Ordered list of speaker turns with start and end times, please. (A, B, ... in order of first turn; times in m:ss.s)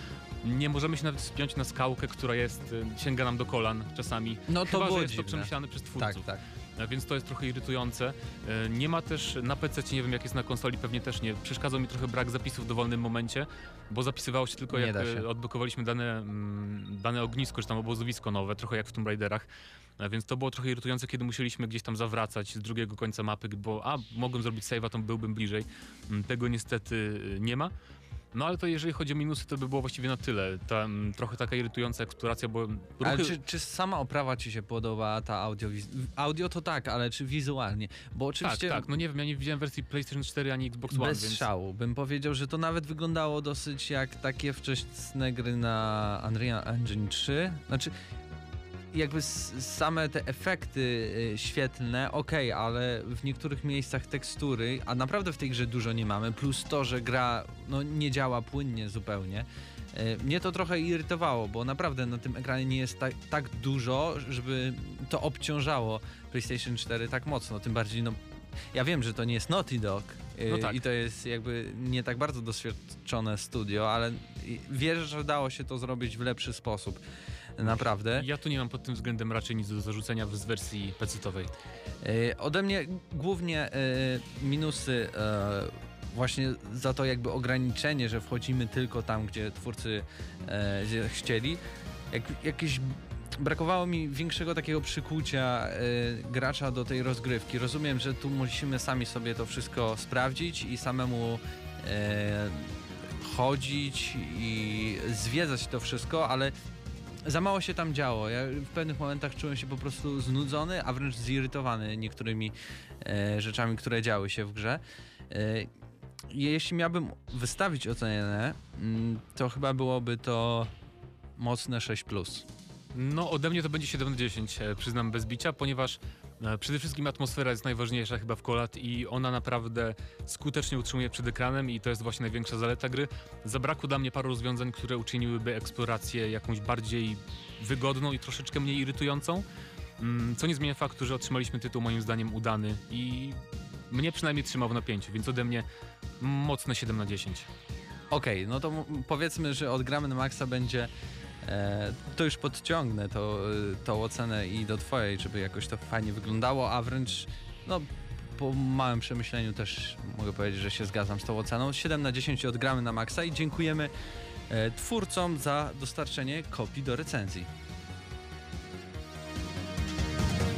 0:00.4-0:19.5 A
0:04.5-0:06.4 B
0:14.7-0:15.3 B
0:20.0-0:27.7 A
0:28.3-0:33.4 A
0:33.0-0:38.9 B
0:38.4-0:41.5 A
0:40.9-0:47.9 B
0:48.9-1:08.2 B
1:08.7-1:17.0 B
1:10.4-1:10.8 A
1:17.6-1:18.3 B
1:17.6-1:21.5 A
1:22.0-1:31.6 B
1:32.1-1:46.5 B
1:47.3-1:55.7 B
1:56.3-2:00.7 B
2:01.4-2:02.4 B
2:02.9-2:19.4 A
2:20.0-2:25.6 A
2:26.2-2:27.5 A
2:28.1-2:30.9 B
2:31.4-2:43.9 B
2:44.5-2:47.5 B